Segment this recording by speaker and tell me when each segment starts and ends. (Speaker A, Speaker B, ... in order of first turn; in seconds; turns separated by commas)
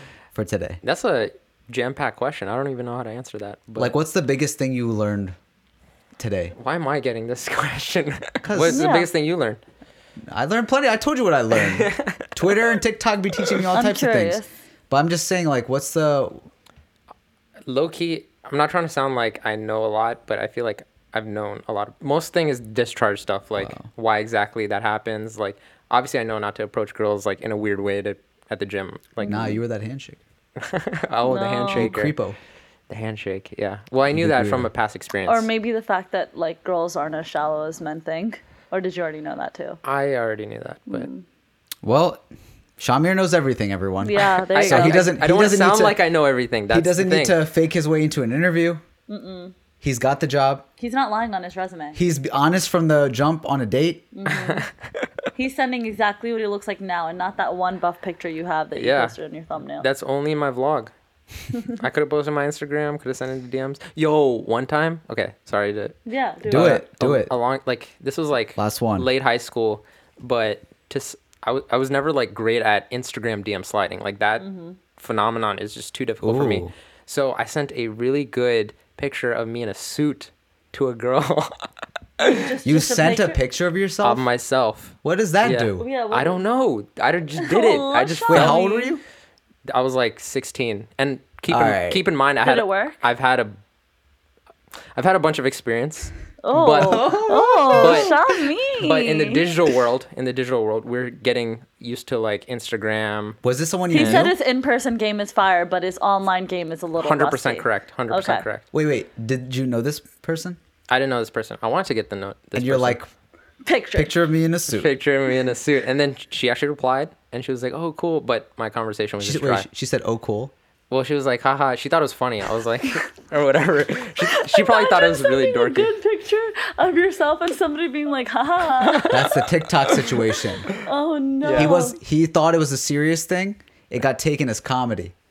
Speaker A: 0.3-0.8, Speaker B: 0.8-3.9, Speaker A: 3.8-5.3, Speaker A: 6.2-6.5, Speaker B: 6.5-9.6, Speaker A: 8.4-8.8, Speaker C: 8.7-9.1, Speaker A: 10.3-16.5, Speaker B: 11.7-12.3, Speaker C: 13.7-14.5, Speaker B: 17.6-29.4, Speaker A: 23.6-23.9, Speaker C: 29.2-29.6, Speaker A: 29.2-30.2, Speaker B: 30.6-32.2, Speaker C: 31.2-31.9, Speaker A: 31.7-32.4, Speaker B: 32.9-35.5, Speaker A: 34.1-34.7, Speaker C: 35.2-39.8, Speaker B: 39.8-41.1, Speaker C: 40.9-41.2, Speaker A: 41.8-42.2, Speaker A: 42.8-46.0, Speaker C: 44.0-45.1, Speaker B: 44.5-47.4, Speaker A: 46.7-48.8, Speaker C: 49.1-49.5, Speaker A: 49.8-50.6, Speaker C: 50.8-52.0, Speaker A: 51.9-54.1, Speaker C: 54.1-54.7, Speaker B: 54.3-55.0, Speaker C: 55.3-59.9, Speaker B: 58.7-59.2, Speaker B: 59.8-60.9, Speaker B: 61.8-66.0, Speaker C: 66.0-66.8, Speaker B: 66.5-74.4, Speaker A: 66.5-67.3, Speaker A: 68.5-69.1, Speaker C: 74.4-74.8, Speaker B: 75.0-81.7, Speaker A: 76.2-76.7, Speaker B: 82.2-82.5, Speaker C: 82.2-83.4, Speaker A: 82.6-84.3, Speaker B: 84.0-88.6, Speaker A: 85.0-85.9, Speaker C: 85.8-86.4, Speaker C: 87.4-89.0, Speaker A: 88.3-89.0, Speaker B: 89.7-93.6, Speaker A: 91.5-92.0, Speaker C: 92.4-93.0, Speaker B: 94.9-98.2, Speaker C: 96.4-99.5, Speaker A: 96.7-98.2, Speaker B: 98.8-103.4, Speaker A: 103.4-104.3, Speaker C: 103.9-108.4, Speaker B: 103.9-104.3, Speaker B: 107.0-108.6, Speaker A: 108.7-110.6, Speaker B: 110.9-113.0, Speaker A: 112.5-113.1, Speaker C: 113.6-114.1, Speaker A: 113.9-114.9, Speaker B: 114.7-119.7, Speaker A: 119.2-120.5, Speaker B: 120.9-125.9, Speaker C: 124.2-129.4, Speaker A: 129.1-130.7, Speaker C: 130.7-132.0, Speaker B: 131.4-131.7, Speaker A: 131.5-135.1